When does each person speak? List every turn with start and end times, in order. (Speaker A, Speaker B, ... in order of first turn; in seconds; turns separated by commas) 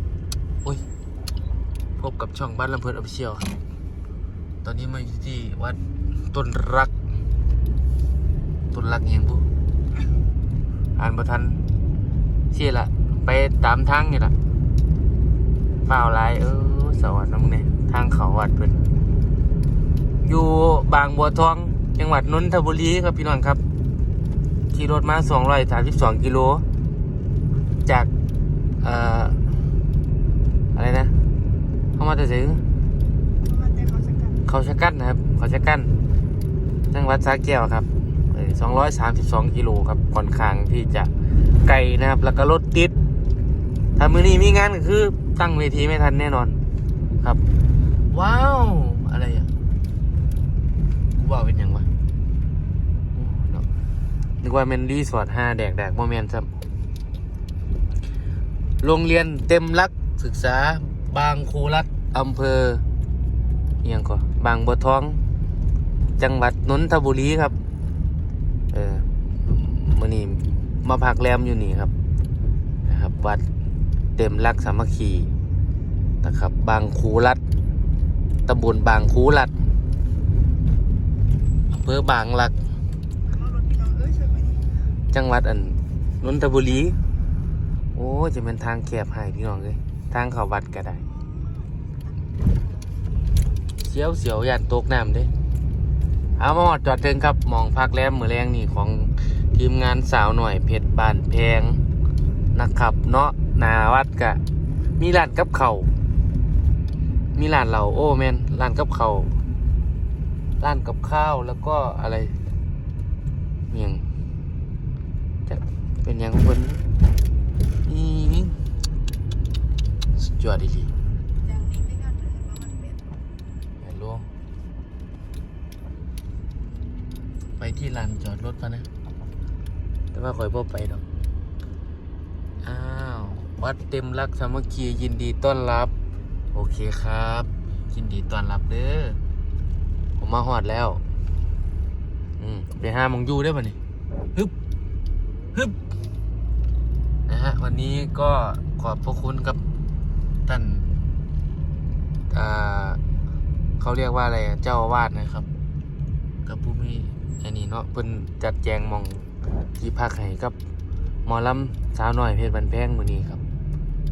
Speaker A: 2.0-3.5, Speaker A: 4.6-6.9, Speaker A: 8.7-9.4, Speaker A: 11.0-11.6, Speaker A: 12.5-14.3, Speaker A: 15.8-18.9, Speaker A: 20.2-23.6, Speaker A: 24.7-26.6, Speaker A: 28.8-29.4, Speaker A: 30.7-31.1, Speaker A: 31.9-32.6, Speaker B: 33.5-34.4, Speaker A: 34.4-35.9, Speaker A: 36.9-42.9, Speaker A: 44.0-46.6, Speaker A: 48.1-49.5, Speaker A: 51.1-51.9, Speaker A: 53.1-53.7, Speaker A: 54.4-56.5, Speaker A: 58.8-62.8, Speaker A: 63.8-65.2, Speaker A: 66.2-67.5, Speaker A: 68.7-71.9, Speaker A: 72.8-73.4, Speaker A: 74.2-75.3, Speaker A: 76.2-77.4, Speaker A: 78.5-79.5, Speaker A: 81.7-82.5, Speaker B: 83.3-84.6, Speaker A: 85.1-87.0, Speaker A: 87.9-91.0, Speaker A: 93.8-95.3, Speaker A: 96.4-101.8, Speaker A: 102.5-104.4, Speaker A: 105.0-105.9, Speaker A: 107.3-109.3, Speaker A: 110.6-112.4, Speaker A: 113.7-114.0, Speaker A: 115.5-116.8, Speaker A: 117.8-118.5, Speaker A: 120.2-120.9, Speaker B: 121.4-123.0, Speaker A: 123.8-124.2, Speaker A: 127.6-128.9, Speaker A: 130.1-131.0, Speaker A: 132.6-135.9, Speaker A: 136.5-139.2, Speaker A: 140.2-141.0, Speaker A: 142.4-143.8, Speaker A: 147.3-149.6, Speaker A: 150.4-151.1, Speaker A: 152.3-153.0, Speaker A: 153.8-155.5, Speaker A: 156.4-160.6, Speaker A: 161.2-163.4